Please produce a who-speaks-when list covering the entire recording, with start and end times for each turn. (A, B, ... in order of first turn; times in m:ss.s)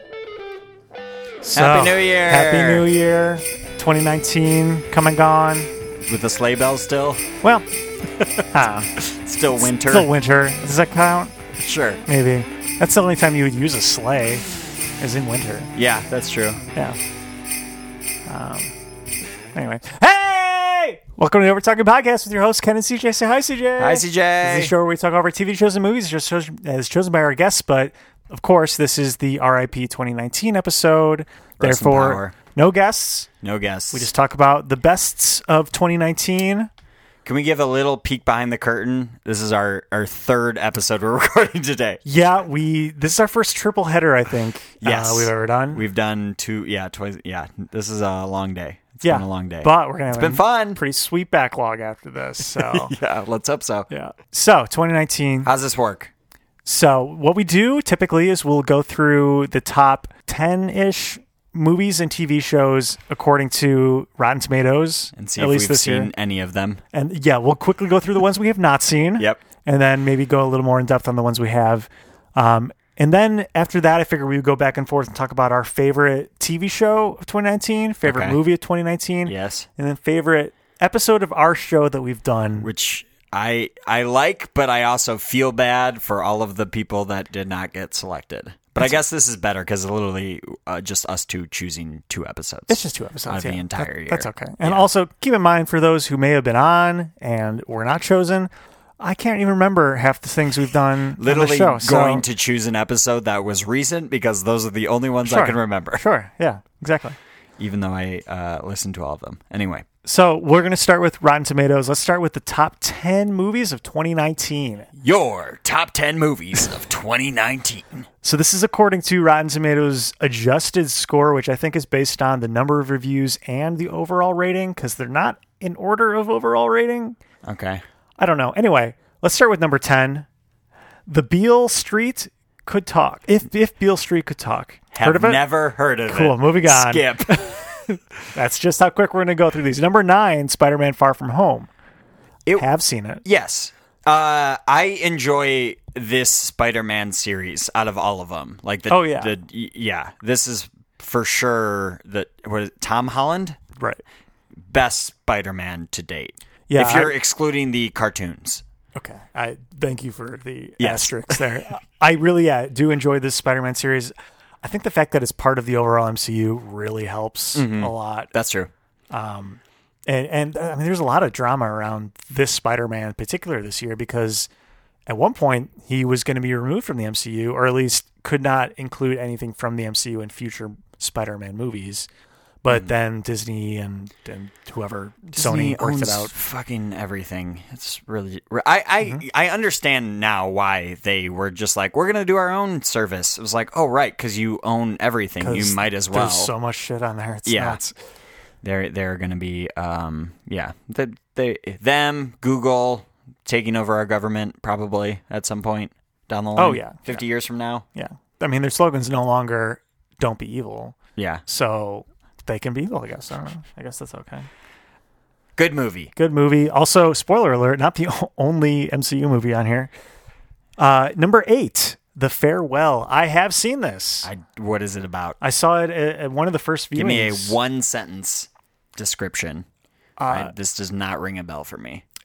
0:01.4-0:05.7 A
0:01.6-0:02.9 B
0:06.1-0:07.2 B
0:08.2-0:10.1 B
0:08.5-0:08.9 A
0:09.6-0:11.5 A
0:11.6-0:12.0 B
0:12.1-0:14.4 A
0:15.0-0:15.7 A
0:15.8-0:16.6 B
0:18.3-0:18.7 A
0:19.5-0:33.3 A
0:23.8-0:24.7 B
0:31.6-0:32.3 B
0:33.4-0:34.1 B
0:33.9-0:36.7 A
0:37.2-0:42.0 B
0:42.1-0:45.8 A
0:44.8-0:50.8 B
0:49.0-0:53.0 A
0:52.4-0:53.9 B
0:53.9-0:55.5 A
0:55.4-0:56.1 B
0:56.6-1:06.1 A
1:05.2-1:06.8 B
1:06.9-1:22.7 A
1:18.0-1:18.4 B
1:19.3-1:19.7 B
1:22.6-1:34.9 B
1:32.7-1:42.2 A
1:41.2-1:46.0 B
1:45.2-1:47.2 A
1:47.6-1:49.8 B
1:50.0-1:54.9 A
1:55.0-1:58.1 B
1:58.2-2:07.2 A
2:07.4-2:07.8 B
2:08.2-2:10.3 A
2:11.1-2:15.4 A
2:14.9-2:18.0 B
2:16.1-2:17.1 A
2:18.3-2:21.7 A
2:22.6-2:23.2 A
2:23.2-2:33.6 B
2:28.9-2:29.3 A
2:33.8-2:34.0 A
2:34.6-2:38.6 B
2:36.7-2:37.1 A
2:39.0-2:48.3 A
2:40.8-2:41.4 B
2:47.6-2:48.7 B
2:49.1-2:54.5 A
2:55.1-3:02.1 A
3:02.6-3:06.3 A
3:05.4-3:16.5 B
3:15.4-3:17.9 A
3:17.5-3:17.8 B
3:18.6-3:27.9 B
3:26.6-3:27.2 A
3:27.9-3:34.5 A
3:31.2-3:31.4 B
3:35.6-3:36.1 B
3:36.2-3:39.9 A
3:40.8-3:44.3 A
3:44.2-3:45.4 B
3:45.4-3:47.6 A
3:47.0-3:49.7 B
3:50.2-3:50.5 A
3:50.3-3:52.0 B